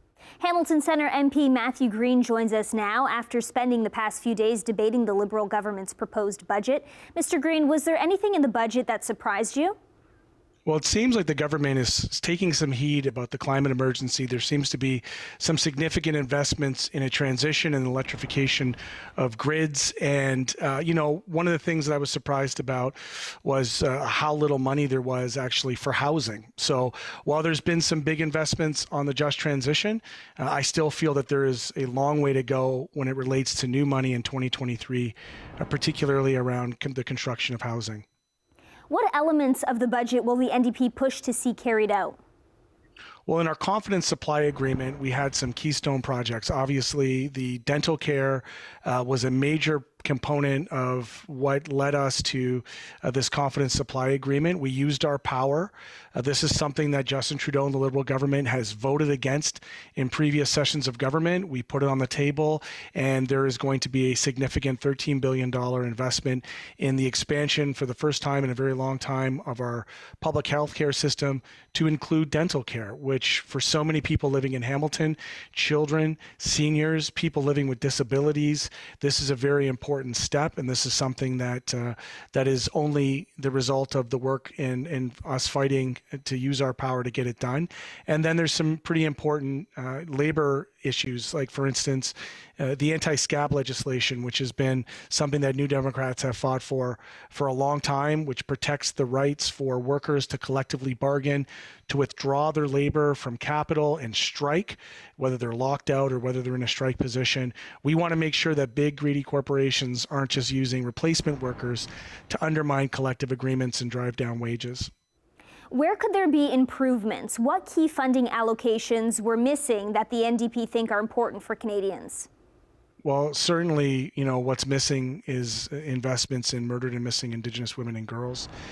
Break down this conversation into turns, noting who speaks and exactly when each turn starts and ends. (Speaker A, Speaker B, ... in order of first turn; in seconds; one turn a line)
Speaker A: 0.4-9.8
Speaker B: 10.7-38.0
Speaker A: 38.9-42.2
Speaker B: 43.3-114.9
Speaker A: 115.7-122.3
Speaker B: 123.0-128.5